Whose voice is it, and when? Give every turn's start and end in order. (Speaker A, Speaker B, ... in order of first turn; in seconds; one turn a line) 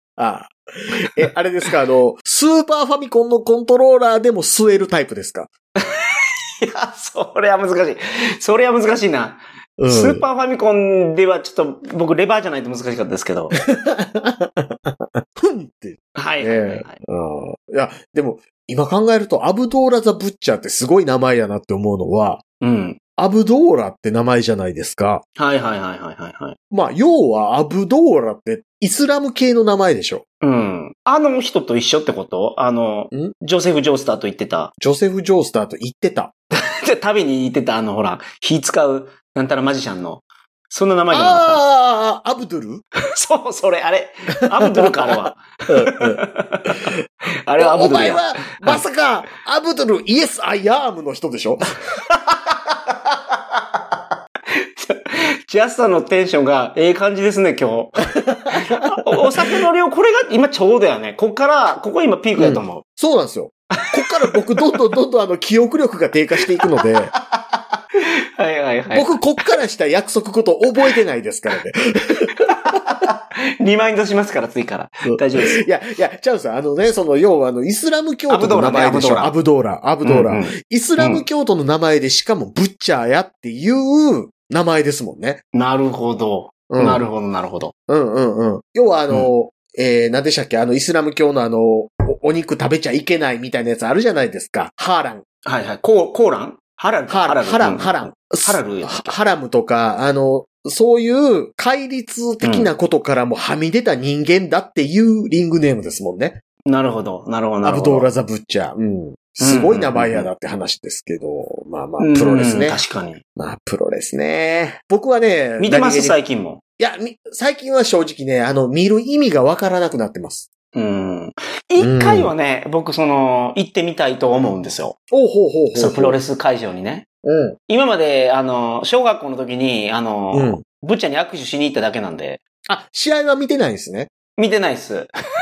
Speaker A: 0.1-5.5
Speaker B: 5.8-13.6
Speaker A: 9.8-10.2
Speaker A: 13.6-22.4
Speaker B: 16.1-17.0
Speaker B: 22.6-23.0
Speaker A: 23.2-25.2
Speaker B: 25.4-26.6
Speaker A: 26.7-30.2
Speaker B: 30.4-34.7
Speaker A: 34.8-36.3
Speaker B: 36.5-41.6
Speaker A: 41.1-42.8
Speaker B: 43.1-48.8
Speaker A: 44.6-45.1
Speaker A: 45.7-46.2
Speaker A: 47.6-51.8
Speaker B: 54.5-62.8
Speaker A: 58.2-59.6
Speaker A: 62.4-67.1
Speaker B: 63.8-64.6
Speaker B: 66.6-69.2
Speaker A: 68.9-72.8
Speaker B: 72.4-75.7
Speaker A: 75.0-85.4
Speaker B: 78.3-79.3
Speaker B: 80.0-81.2
Speaker B: 85.5-87.7
Speaker A: 86.7-87.0
Speaker A: 87.9-95.2
Speaker B: 95.4-99.1
Speaker A: 97.1-106.4
Speaker B: 102.4-102.7
Speaker B: 106.7-108.1
Speaker A: 107.6-112.8
Speaker B: 109.4-110.3
Speaker B: 112.0-113.2
Speaker A: 113.3-116.2
Speaker B: 115.6-116.6
Speaker A: 116.8-120.5
Speaker B: 120.7-125.0
Speaker A: 121.8-122.3
Speaker A: 125.1-126.2
Speaker B: 125.7-127.0
Speaker A: 127.2-127.6
Speaker B: 127.7-132.4
Speaker A: 130.3-130.6
Speaker A: 132.7-134.1
Speaker B: 134.4-135.1